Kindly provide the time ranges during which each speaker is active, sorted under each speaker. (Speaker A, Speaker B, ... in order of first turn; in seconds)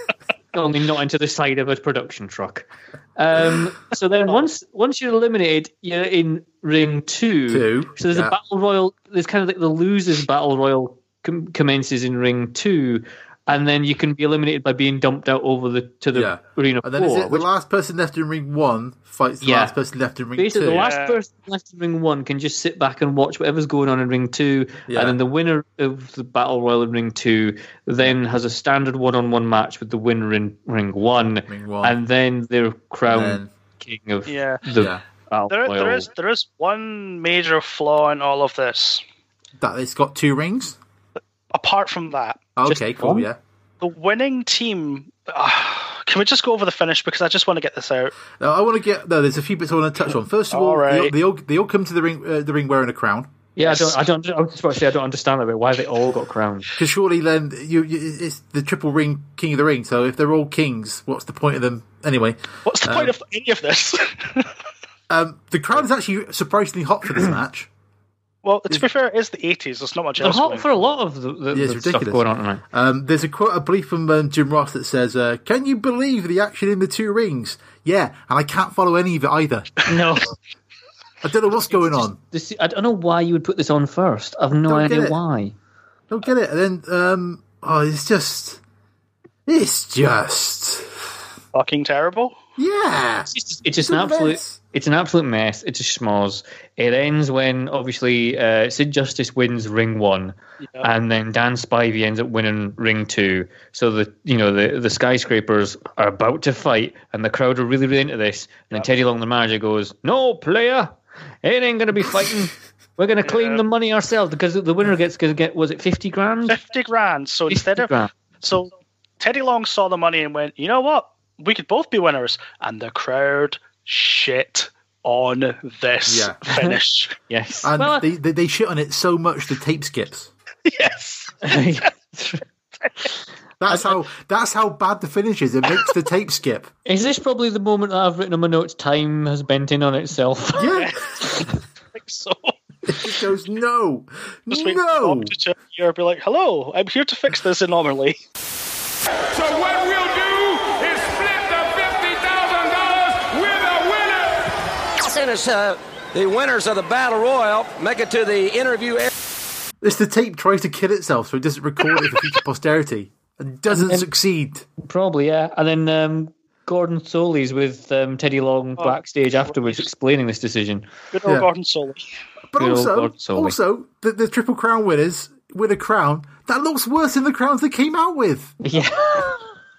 Speaker A: 0.5-17.5, 19.4-19.7, 20.4-36.1, 42.7-43.3, 53.5-56.7, 70.2-72.6, 79.9-80.3, 81.9-85.5, 93.3-116.6, 117.5-118.1, 126.5-126.8, 127.3-128.1, 131.4-132.4, 136.8-140.7, 163.7-164.1, 164.8-170.8, 172.6-173.6, 178.6-179.3
Speaker B: 7.5-8.3, 16.1-20.9, 24.9-25.1, 31.5-32.0, 33.1-33.5, 34.7-35.0, 39.6-40.8, 42.5-43.4, 48.4-53.3, 56.8-63.1, 65.1-67.7, 71.5-79.8, 81.2-82.2, 84.7-85.2, 86.1-88.6, 89.5-90.9, 92.6-94.6, 126.1-126.4, 127.6-130.3, 133.6-136.7, 140.6-140.9, 142.9-145.3, 159.8-164.7, 172.5-178.6
Speaker C: 20.8-21.2, 34.2-34.6, 35.5-39.0, 41.5-42.4, 43.8-48.1, 50.5-51.1, 53.6-54.0, 62.6-64.5, 68.4-70.7, 91.5-92.3, 113.2-113.6, 116.5-117.9, 118.4-127.2, 130.7-131.4, 140.6-143.1, 144.5-148.2, 168.8-169.8, 171.1-172.1
Speaker D: 149.4-154.2
Speaker E: 155.0-159.1